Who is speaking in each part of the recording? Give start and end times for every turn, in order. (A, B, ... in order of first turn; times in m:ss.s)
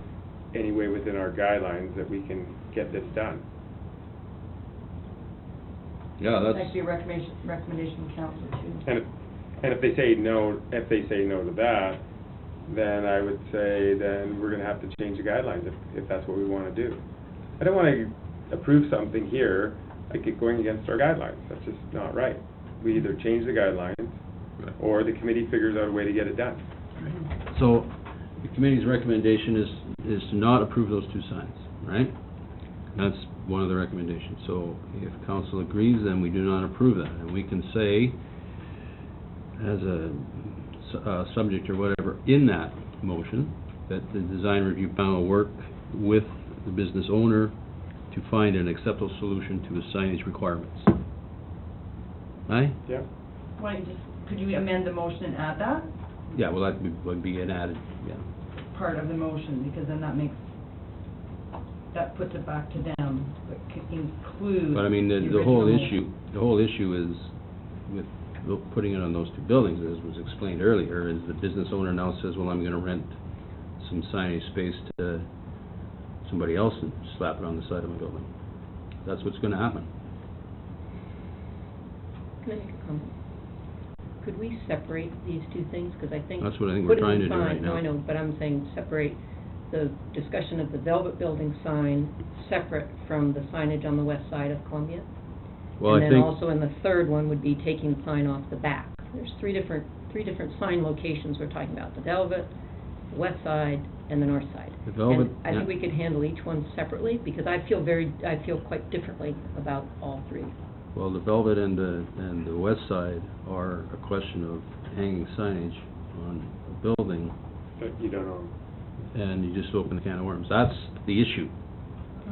0:00.5-0:03.4 A
0:06.2-0:06.8 B
0:06.4-0:08.8 C
0:08.8-0:12.1 A
0:12.6-0:26.8 A
0:27.0-0:38.4 B
0:39.6-0:51.0 B
0:52.5-0:52.8 B
0:53.6-0:56.0 C
0:56.3-0:58.3 B
0:58.6-1:00.6 C
1:01.9-1:06.0 C
1:04.7-1:15.3 B
1:16.2-1:18.4 B
1:19.0-1:19.9 B
1:22.4-1:23.1 D
1:24.2-1:35.1 D
1:26.4-1:27.9 B
1:35.8-1:42.6 D
1:35.8-1:36.3 B
1:43.1-1:50.5 D
1:44.8-1:45.7 B
1:51.0-1:57.4 B
1:57.8-1:58.5 A
1:59.1-2:01.5 B